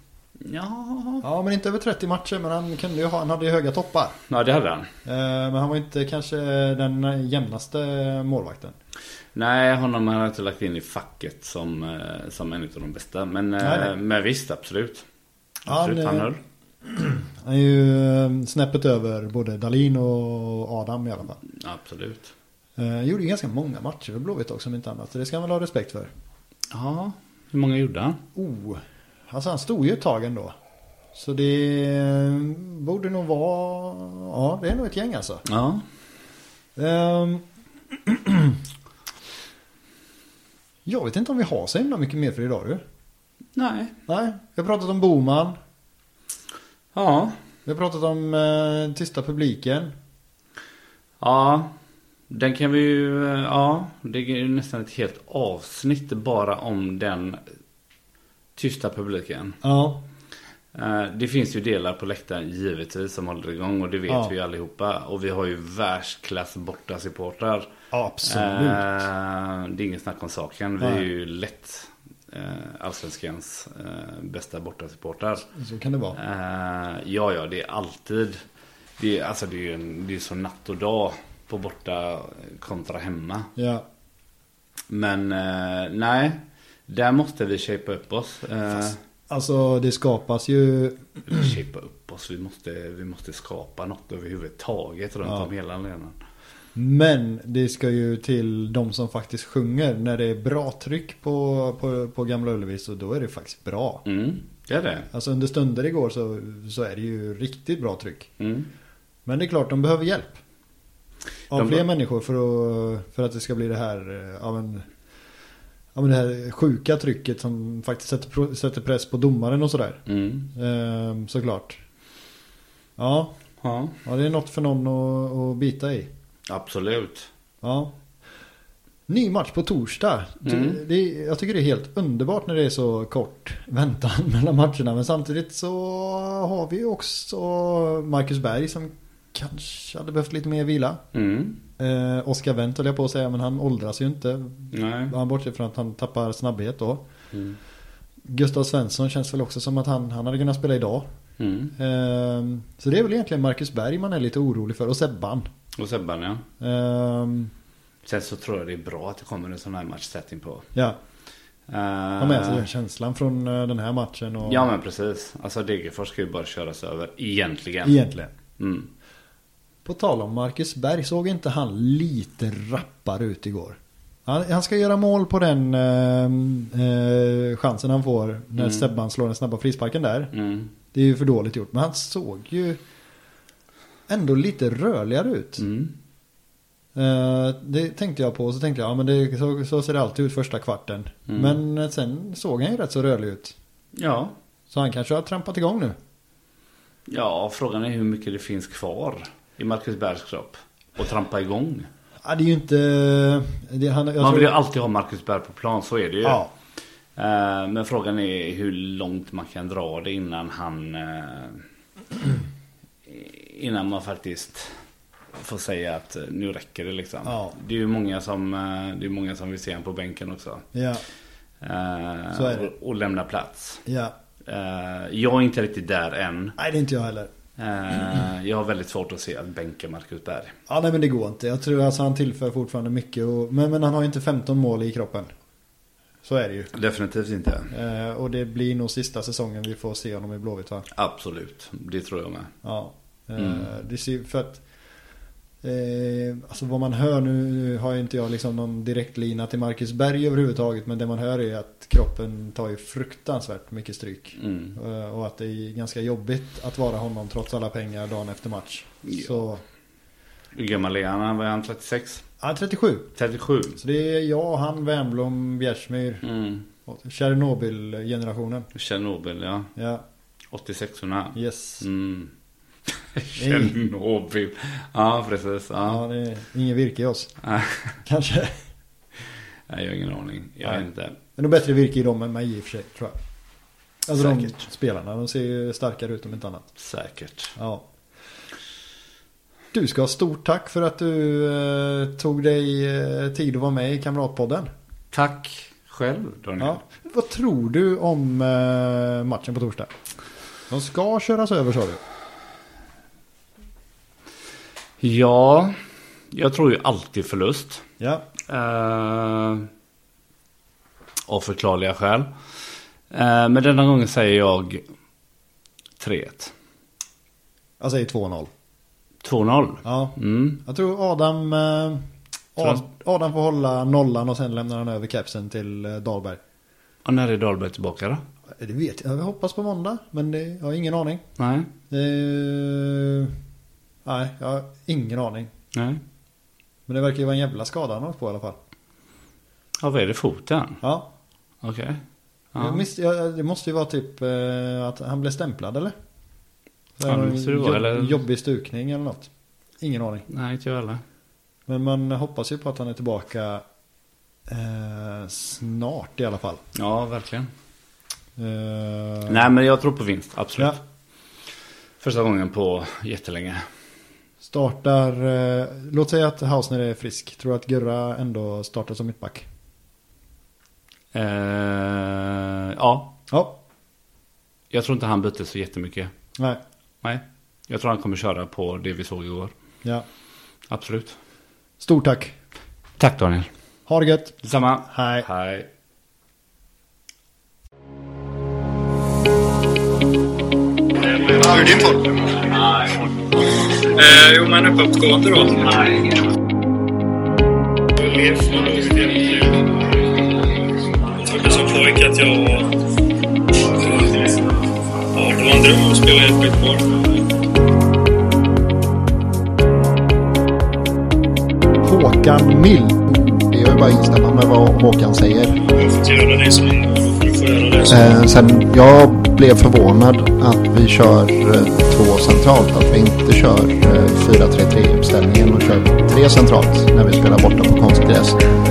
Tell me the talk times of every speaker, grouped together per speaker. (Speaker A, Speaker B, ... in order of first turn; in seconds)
Speaker A: 0.4-1.2, 4.3-4.9, 9.3-15.0, 15.6-16.4, 21.5-22.3, 26.7-28.2, 35.5-35.8, 43.5-43.9, 46.9-47.4, 51.2-51.7, 52.3-57.4, 58.5-59.6, 60.7-67.7, 68.2-75.5, 76.1-78.4, 79.0-83.5, 84.9-89.0, 91.3-96.1, 104.0-105.1, 108.4-108.7, 111.5-111.8, 120.1-120.5, 123.6-124.0, 126.5-127.3, 130.4-130.8, 141.1-141.6, 144.7-145.1, 147.3-147.6, 151.4-151.7, 155.8-156.4, 158.0-160.7, 161.7-162.6, 164.4-167.9, 168.6-168.9, 178.6-178.9, 180.3-180.7, 185.6-185.9, 191.3-191.6, 193.9-194.3, 197.1-201.9, 204.2-206.4, 207.2-211.6, 213.1-214.7, 215.3-220.7, 221.6-223.8, 224.4-226.6, 227.6-230.5, 236.7-237.7, 240.9-242.5, 243.4-243.6, 254.4-254.8, 259.0-259.4, 260.5-262.2, 263.1-263.8, 266.2-266.6, 268.7-269.7, 270.5-272.3, 273.1-276.0, 277.4-278.0, 279.7-281.1, 284.1-284.6, 286.8-287.5, 295.1-296.8, 305.0-305.8, 306.3-307.8, 308.5-309.7, 311.3-312.3, 313.1-314.8, 316.0-316.5, 319.2-320.6, 322.6-322.8, 327.0-328.2, 331.4-331.7, 335.7-336.0, 339.8-340.8, 341.6-342.0, 342.5-342.8, 347.1-348.2, 350.3-351.0, 356.7-357.5, 359.3-360.8, 362.0-363.6, 371.1-373.1, 374.7-376.1, 377.0-379.5, 380.7-381.2, 383.0-383.5, 384.4-385.7
Speaker B: 1.2-4.2, 5.0-8.7, 13.6-13.9, 15.7-16.3, 16.8-21.4, 22.8-26.1, 28.3-30.6, 31.1-35.4, 36.8-37.4, 38.0-38.6, 40.9-42.8, 44.1-45.5, 47.6-49.9, 59.6-60.0, 67.9-69.0, 75.5-76.2, 83.5-83.8, 88.7-91.1, 96.7-104.0, 105.1-108.3, 109.2-110.4, 111.5-114.8, 115.9-120.0, 120.5-121.8, 123.0-123.3, 124.0-126.1, 127.6-127.9, 129.1-141.0, 141.8-147.0, 148.3-151.1, 151.7-155.5, 156.6-157.5, 162.2-164.7, 167.8-168.3, 169.8-180.3, 180.9-182.8, 184.1-185.6, 186.9-193.5, 194.7-196.0, 202.2-204.5, 206.2-206.5, 217.2-217.5, 220.7-221.0, 222.3-222.7, 223.8-224.1, 226.6-227.3, 230.7-235.3, 236.2-236.7, 237.7-240.8, 242.6-244.6, 245.6-259.6, 262.4-263.1, 263.8-266.2, 266.8-268.7, 269.8-270.0, 271.3-271.8, 273.4-273.7, 275.8-277.3, 278.0-278.6, 281.4-283.1, 284.1-286.6, 287.6-287.8, 289.7-294.7, 296.6-299.9, 300.7-302.0, 308.0-308.2, 317.8-318.5, 319.8-322.0, 322.6-326.4, 328.6-331.2, 331.9-333.3, 334.0-335.5, 336.9-338.6, 340.8-341.1, 342.6-345.9, 347.0-349.3, 349.8-350.2, 351.7-353.6, 354.5-356.6, 358.4-359.5, 364.4-369.4, 373.3-373.6, 381.8-382.3, 383.9-384.4, 384.9-385.3, 411.8-413.0
Speaker C: 391.0-392.8, 393.9-396.2, 398.0-399.8, 401.1-402.8, 403.7-404.4, 405.1-407.0, 415.7-418.2
Speaker D: 413.1-415.6, 417.9-428.4